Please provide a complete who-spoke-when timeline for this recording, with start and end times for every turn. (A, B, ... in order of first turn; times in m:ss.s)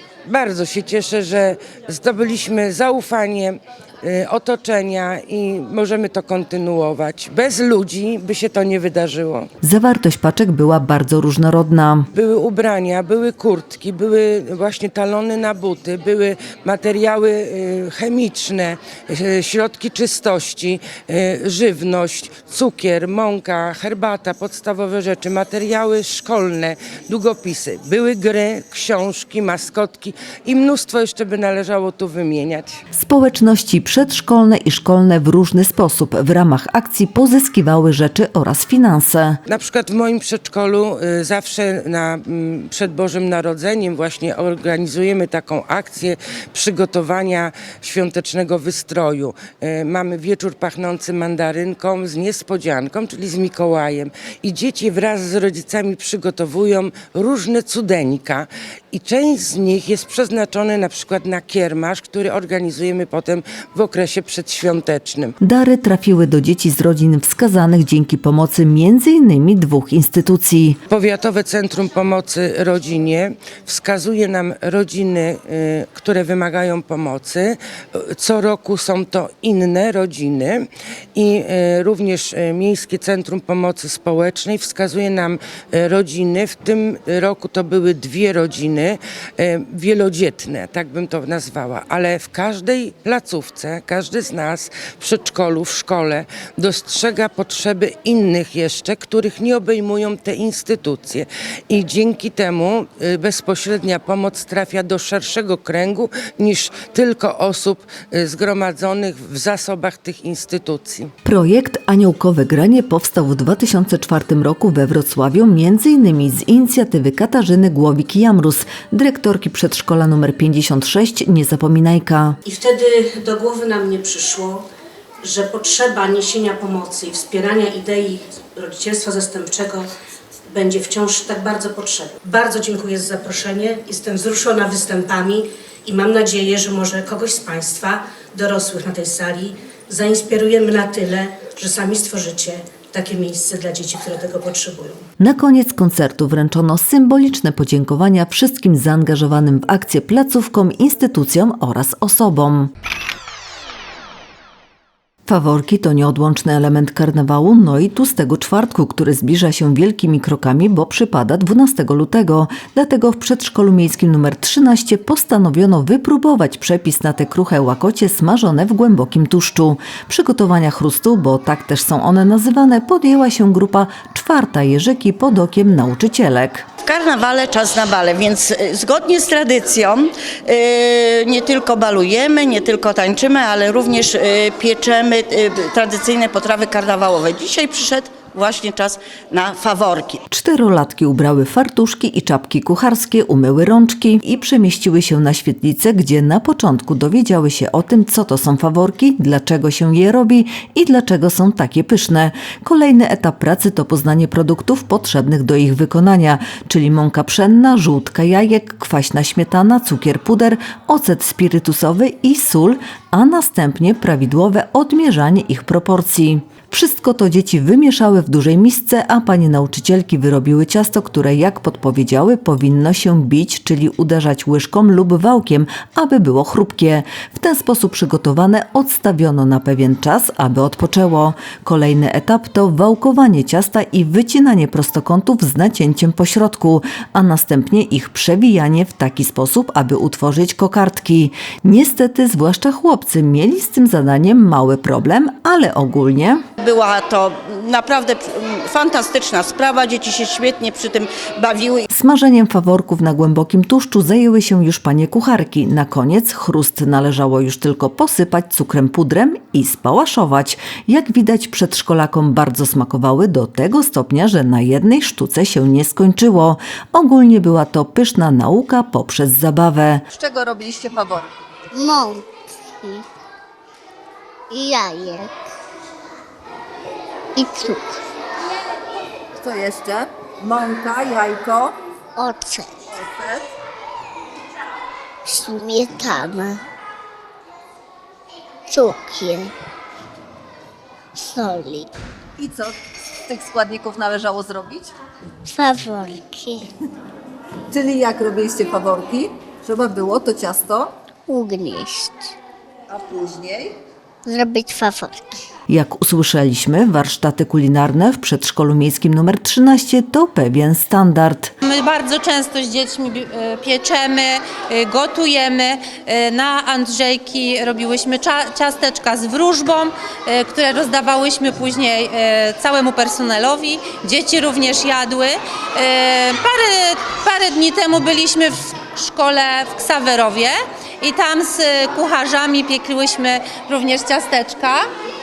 0:00.2-0:09.5 A
0:09.6-0:12.1 B
0:12.1-0:32.8 A
0:32.9-0:39.4 B
0:39.5-1:05.3 A
1:05.4-1:10.8 B
1:10.9-1:51.1 A
1:51.2-2:02.4 B
2:02.4-2:04.6 C
2:05.2-2:09.9 C
2:10.5-2:25.0 C
2:25.2-2:32.7 B
2:35.2-2:56.6 B
2:56.8-3:10.2 D
3:10.3-4:06.4 B
4:06.6-4:11.8 D
4:11.9-4:30.0 B
4:30.1-4:31.3 E
4:31.7-4:33.0 F
4:34.5-4:35.5 F
4:37.4-4:38.0 F
4:39.4-4:41.7 E
4:42.2-4:42.8 F
4:42.9-4:43.5 E
4:45.2-4:46.6 F
4:48.7-4:49.5 F
4:51.1-4:51.9 F
4:52.4-4:54.9 E
4:55.5-4:56.7 F
4:57.7-5:00.9 E
5:01.3-5:02.4 F
5:02.9-5:03.7 E
5:04.2-5:05.4 F
5:05.7-5:11.5 B
5:11.6-5:34.8 G